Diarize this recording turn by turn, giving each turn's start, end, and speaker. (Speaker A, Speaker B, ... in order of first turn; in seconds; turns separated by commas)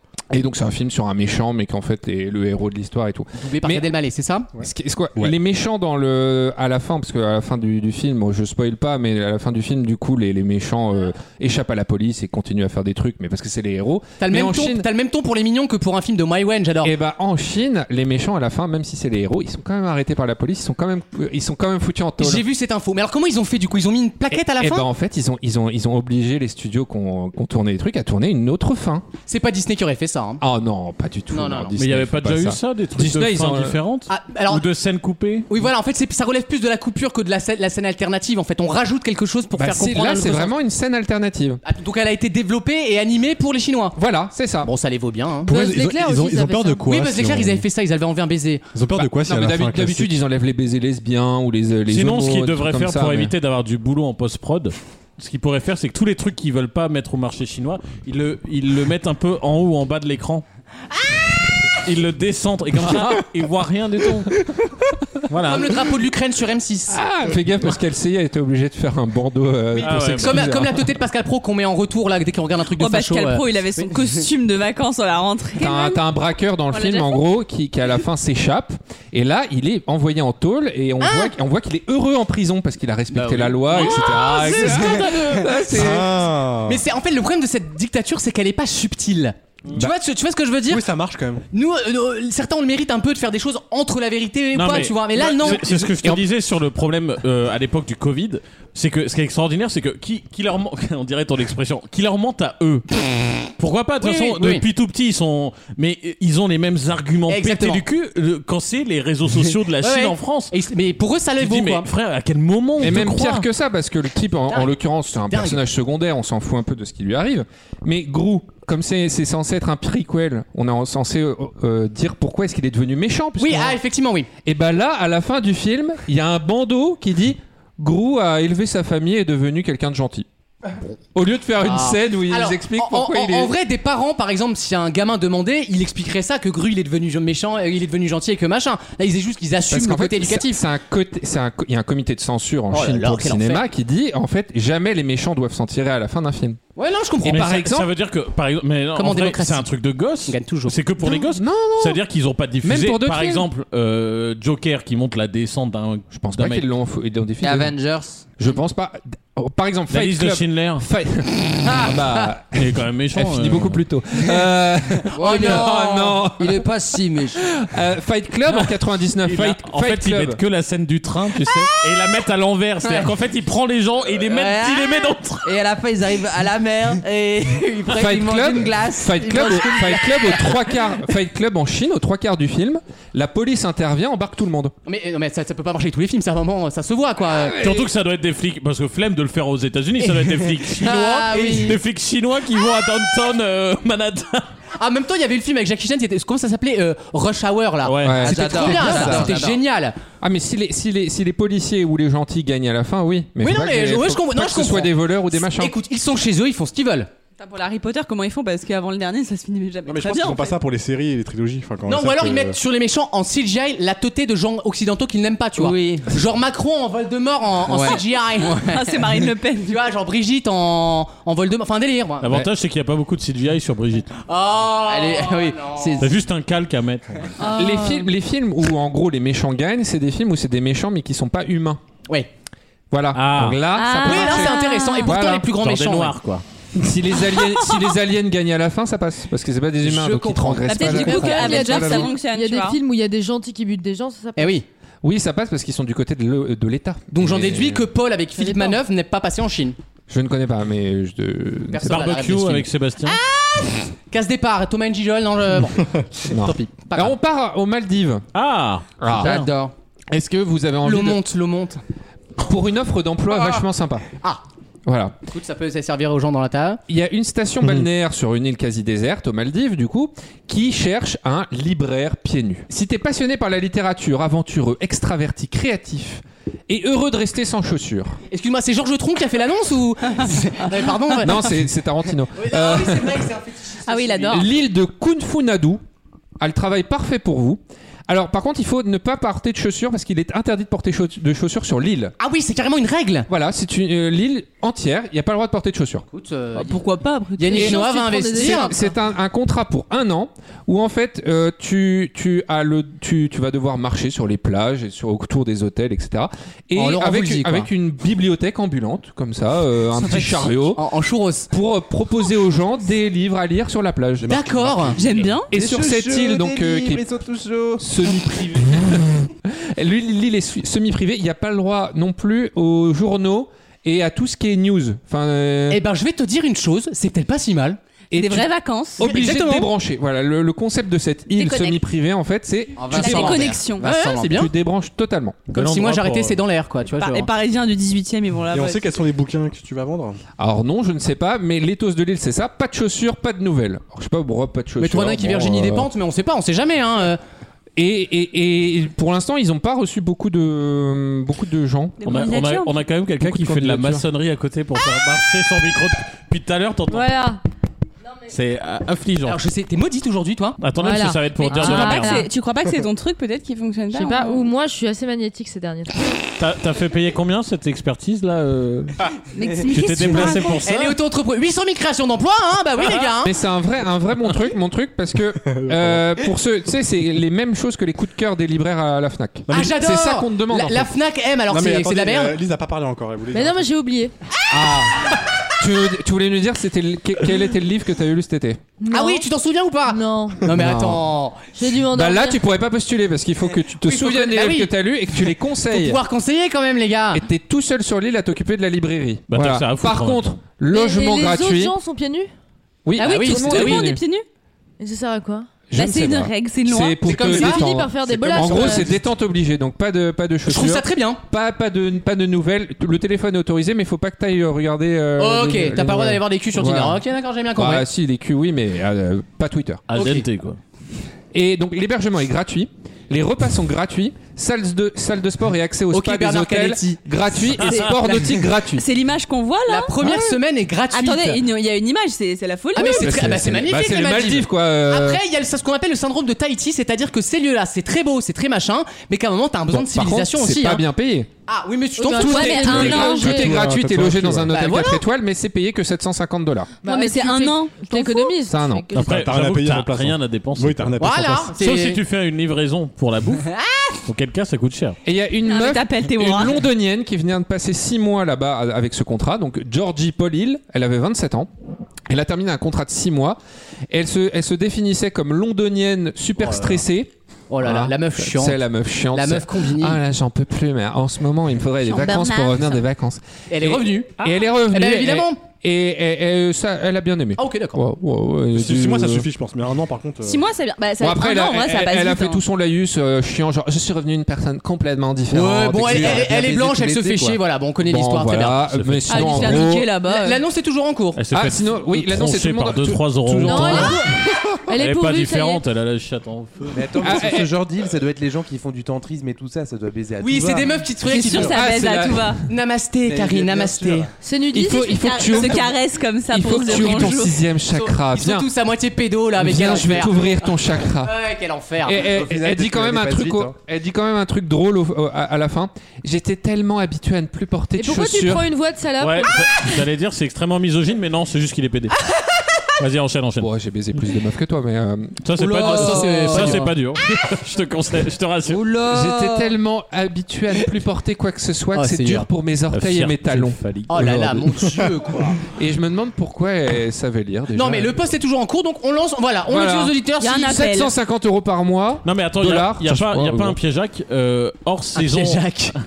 Speaker A: 0.3-3.9, Speaker B: 3.4-4.5, Speaker A: 4.6-14.9, Speaker B: 14.2-16.9, Speaker A: 16.8-22.4, Speaker B: 22.2-24.9, Speaker A: 24.3-29.1, Speaker B: 29.3-30.4, Speaker A: 30.4-33.8, Speaker B: 31.3-31.8, Speaker C: 31.8-35.5, Speaker B: 34.1-34.6, Speaker B: 35.5-40.6, Speaker A: 39.5-41.6, Speaker B: 41.6-44.0, Speaker A: 44.0-44.7, Speaker B: 44.6-45.5, Speaker D: 45.5-47.6, Speaker E: 45.5-46.9, Speaker B: 46.9-48.7, Speaker D: 48.7-50.1, Speaker A: 48.9-53.3, Speaker C: 51.9-60.5, Speaker C: 61.8-64.4, Speaker C: 65.3-65.8, Speaker B: 65.5-67.0, Speaker A: 66.9-70.8, Speaker C: 69.8-70.5, Speaker B: 69.8-74.3, Speaker F: 72.7-76.0, Speaker A: 75.6-86.1, Speaker F: 76.7-77.2, Speaker B: 81.0-81.3, Speaker B: 83.1-85.9, Speaker F: 83.7-84.8, Speaker D: 85.7-86.8, Speaker B: 86.7-90.9, Speaker D: 90.7-91.4, Speaker B: 91.5-95.9, Speaker C: 94.5-102.8, Speaker A: 95.5-96.2, Speaker C: 103.6-110.5, Speaker B: 104.0-104.6, Speaker B: 107.3-107.8, Speaker B: 109.8-111.9, Speaker C: 111.4-113.5, Speaker A: 112.8-123.8, Speaker B: 115.3-115.6, Speaker B: 123.4-124.3, Speaker A: 124.4-130.3, Speaker A: 131.1-133.5, Speaker B: 131.6-140.6, Speaker A: 139.7-146.6, Speaker B: 142.7-143.7, Speaker B: 146.8-147.6, Speaker A: 147.2-147.9, Speaker C: 147.3-156.6, Speaker B: 148.9-149.7, Speaker B: 150.3-150.8, Speaker A: 151.0-152.0, Speaker A: 152.6-153.5, Speaker A: 156.1-157.7, Speaker G: 157.4-158.3, Speaker A: 158.4-166.6, Speaker C: 159.9-160.8, Speaker C: 162.6-163.8, Speaker G: 165.1-167.4, Speaker B: 165.2-166.1, Speaker A: 167.4-170.4, Speaker C: 169.2-175.6, Speaker G: 172.8-173.1, Speaker G: 174.2-180.7, Speaker A: 177.9-184.7, Speaker B: 184.8-187.7, Speaker A: 187.4-187.9, Speaker C: 187.6-194.5, Speaker B: 190.0-191.8, Speaker G: 191.0-191.8, Speaker B: 194.8-199.9, Speaker C: 197.8-199.3, Speaker A: 198.0-199.4, Speaker G: 198.2-199.6, Speaker A: 200.2-205.7, Speaker B: 203.4-207.1, Speaker F: 207.4-210.6, Speaker D: 209.9-212.6, Speaker B: 211.9-218.7, Speaker G: 215.6-216.1, Speaker G: 217.7-218.9, Speaker F: 218.6-219.9, Speaker B: 219.7-222.4, Speaker C: 222.2-224.1, Speaker B: 224.3-226.1, Speaker G: 224.8-226.1, Speaker C: 226.0-227.3, Speaker F: 227.4-228.1, Speaker A: 227.5-231.8, Speaker A: 232.9-235.5, Speaker C: 233.1-233.6, Speaker F: 233.7-235.3, Speaker B: 234.0-236.2, Speaker C: 235.6-236.4, Speaker A: 236.7-242.1, Speaker F: 237.4-237.7, Speaker B: 239.8-241.7, Speaker F: 240.6-242.8, Speaker E: 240.8-244.6, Speaker B: 244.4-244.6, Speaker A: 245.0-247.9, Speaker B: 247.1-249.8, Speaker E: 248.4-248.8, Speaker A: 250.1-252.3, Speaker B: 251.7-257.2, Speaker C: 251.9-253.2, Speaker A: 256.3-258.2, Speaker C: 258.3-259.5, Speaker A: 259.0-259.5, Speaker G: 259.1-259.7, Speaker A: 260.1-261.2, Speaker B: 260.8-261.8, Speaker A: 262.4-264.1, Speaker B: 263.3-263.6, Speaker A: 264.9-265.1, Speaker B: 265.3-266.8, Speaker A: 266.9-278.2, Speaker B: 278.3-281.6, Speaker A: 281.2-283.3, Speaker B: 282.3-284.5, Speaker F: 283.9-284.5, Speaker A: 284.3-285.8, Speaker A: 286.4-292.1, Speaker B: 292.2-293.3, Speaker A: 293.3-296.0, Speaker B: 296.1-296.8, Speaker F: 296.6-298.0, Speaker B: 297.4-298.8, Speaker E: 297.5-298.9, Speaker A: 297.6-310.8, Speaker B: 306.7-307.7, Speaker B: 309.9-311.5, Speaker A: 311.5-314.4, Speaker D: 314.2-315.4, Speaker B: 314.3-315.0, Speaker F: 314.9-315.5, Speaker A: 315.5-317.1, Speaker H: 315.6-318.1, Speaker A: 317.8-325.8, Speaker B: 325.7-327.8, Speaker F: 328.1-329.4, Speaker A: 328.1-328.5, Speaker A: 329.0-333.4, Speaker B: 329.0-329.7, Speaker F: 331.3-331.8, Speaker G: 332.8-334.4, Speaker F: 332.9-333.9, Speaker B: 333.0-334.5, Speaker A: 334.3-335.5, Speaker B: 335.5-337.3, Speaker C: 335.5-336.4, Speaker F: 336.9-338.9, Speaker D: 338.5-340.2, Speaker A: 340.4-345.9, Speaker B: 344.8-347.2, Speaker A: 347.8-352.0, Speaker F: 352.0-352.8, Speaker C: 352.0-357.1, Speaker A: 353.2-354.1, Speaker E: 356.9-357.4, Speaker C: 358.3-359.4, Speaker B: 359.3-360.6, Speaker C: 360.6-362.3, Speaker E: 360.8-362.3, Speaker F: 361.4-364.5, Speaker E: 363.9-366.2, Speaker C: 366.4-369.0, Speaker F: 369.3-370.6, Speaker C: 369.7-371.0, Speaker B: 370.1-373.4, Speaker A: 373.2-380.9, Speaker D: 375.4-376.2, Speaker D: 379.5-379.7, Speaker B: 379.5-382.4, Speaker D: 381.5-383.6, Speaker E: 383.3-384.1, Speaker A: 384.5-388.6, Speaker E: 388.8-389.3, Speaker B: 388.9-391.4, Speaker E: 389.9-390.4, Speaker A: 390.5-391.1, Speaker E: 391.5-392.4, Speaker A: 391.9-396.0, Speaker B: 393.6-397.2, Speaker A: 397.1-401.7, Speaker C: 399.3-400.2, Speaker E: 400.7-402.3, Speaker A: 402.9-404.0, Speaker F: 402.9-404.3, Speaker B: 403.0-404.0, Speaker E: 404.8-405.5, Speaker A: 405.7-417.0, Speaker F: 405.7-407.3, Speaker B: 407.1-409.1, Speaker E: 407.2-408.9, Speaker B: 410.5-411.2, Speaker B: 415.2-417.9, Speaker A: 417.6-419.9, Speaker C: 419.9-420.6, Speaker B: 419.9-420.2, Speaker A: 421.3-428.8, Speaker B: 425.9-428.4, Speaker F: 428.7-429.9, Speaker B: 429.7-431.4, Speaker A: 430.0-430.4, Speaker F: 430.9-433.2, Speaker B: 432.7-440.8, Speaker A: 432.8-435.2, Speaker A: 439.7-441.3, Speaker B: 441.5-443.2, Speaker E: 442.0-443.6, Speaker F: 442.1-443.4, Speaker A: 442.3-446.7, Speaker D: 443.4-444.5, Speaker B: 444.5-445.0, Speaker F: 446.8-448.4, Speaker E: 446.8-449.1, Speaker A: 448.4-448.9, Speaker C: 448.9-453.5, Speaker D: 448.9-451.5, Speaker B: 451.0-452.0, Speaker B: 453.5-454.0, Speaker C: 454.1-455.0, Speaker A: 455.1-461.5, Speaker F: 455.4-456.6, Speaker A: 462.1-463.4, Speaker A: 463.9-479.3, Speaker B: 466.4-466.8, Speaker B: 467.5-470.0, Speaker F: 471.8-472.8, Speaker B: 473.5-475.4, Speaker B: 477.4-477.8, Speaker D: 478.5-480.4, Speaker F: 480.2-482.4, Speaker A: 481.0-489.9, Speaker B: 485.3-488.7, Speaker C: 488.7-489.2, Speaker F: 489.1-490.4, Speaker B: 489.2-491.2, Speaker C: 491.2-494.0, Speaker A: 491.3-494.1, Speaker E: 493.4-495.6, Speaker C: 494.8-496.9, Speaker H: 496.7-500.9, Speaker A: 497.0-497.5, Speaker B: 500.2-501.7, Speaker F: 501.1-502.4, Speaker A: 501.1-502.3, Speaker B: 502.4-504.1, Speaker H: 503.1-504.1, Speaker E: 504.2-505.6, Speaker A: 504.5-505.8, Speaker F: 504.8-507.4, Speaker A: 506.3-508.5, Speaker B: 506.6-507.2, Speaker B: 507.7-512.0, Speaker A: 509.4-511.1, Speaker A: 511.8-518.5, Speaker H: 512.0-513.6, Speaker E: 517.8-519.5, Speaker C: 519.0-521.9, Speaker C: 522.8-523.5, Speaker A: 523.4-525.5, Speaker C: 525.2-528.7, Speaker B: 525.4-526.8, Speaker G: 525.6-526.6, Speaker G: 528.5-529.5, Speaker A: 528.7-534.6, Speaker B: 531.7-532.3, Speaker C: 532.7-534.2, Speaker B: 533.9-535.4, Speaker A: 535.5-538.0, Speaker B: 537.5-540.6, Speaker A: 539.5-543.6, Speaker F: 540.2-540.9, Speaker C: 542.0-545.5, Speaker B: 545.0-545.8